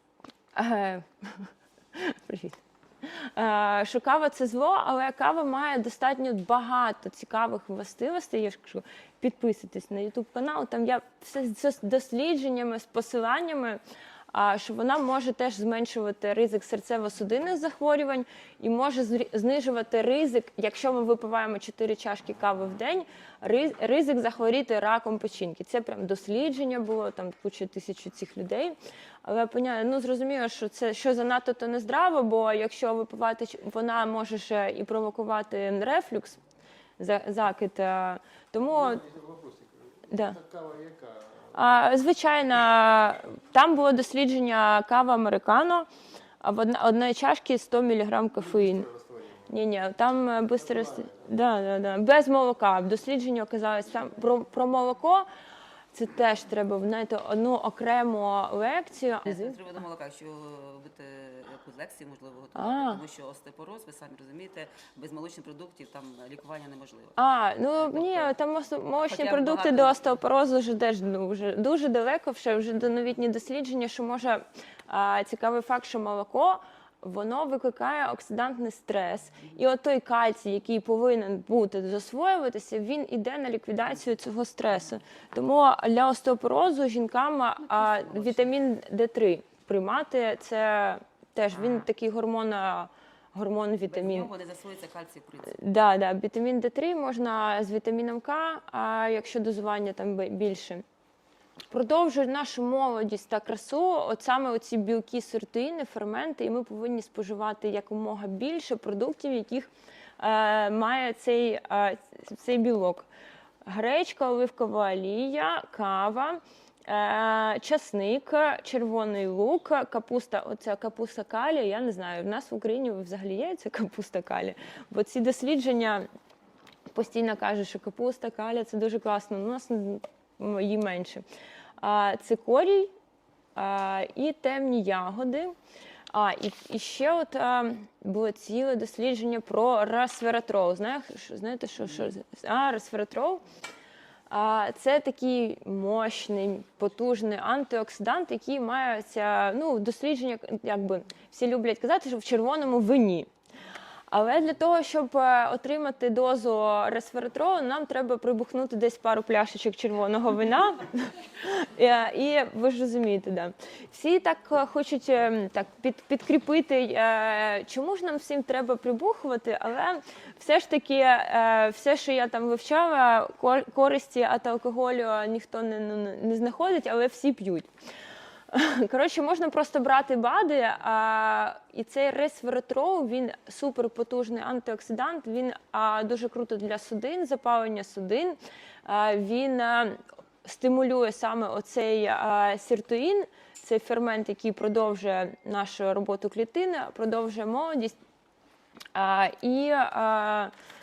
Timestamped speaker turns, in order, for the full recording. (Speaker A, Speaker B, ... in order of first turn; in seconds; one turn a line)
Speaker A: 0.5-13.8
Speaker A: 14.3-36.4
Speaker A: 37.0-39.0
Speaker B: 38.5-41.6
Speaker A: 40.1-40.4
Speaker A: 41.5-45.9
Speaker A: 46.4-48.9
Speaker B: 48.4-49.6
Speaker A: 49.5-55.3
Speaker B: 50.5-51.3
Speaker A: 55.9-59.6
Speaker C: 59.2-67.2
Speaker A: 62.5-63.0
Speaker A: 67.2-94.3
Speaker C: 67.8-68.3
Speaker C: 69.0-70.2
Speaker C: 87.7-88.5
Speaker C: 93.9-95.6
Speaker A: 95.5-100.8
Speaker A: 101.7-113.1
Speaker A: 113.6-126.0
Speaker A: 126.9-131.2
Speaker A: 131.8-132.9
Speaker A: 133.6-135.5
Speaker A: 136.1-143.4
Speaker A: 144.3-153.3
Speaker A: 154.1-177.7
Speaker A: 178.5-197.9
Speaker A: 198.9-200.5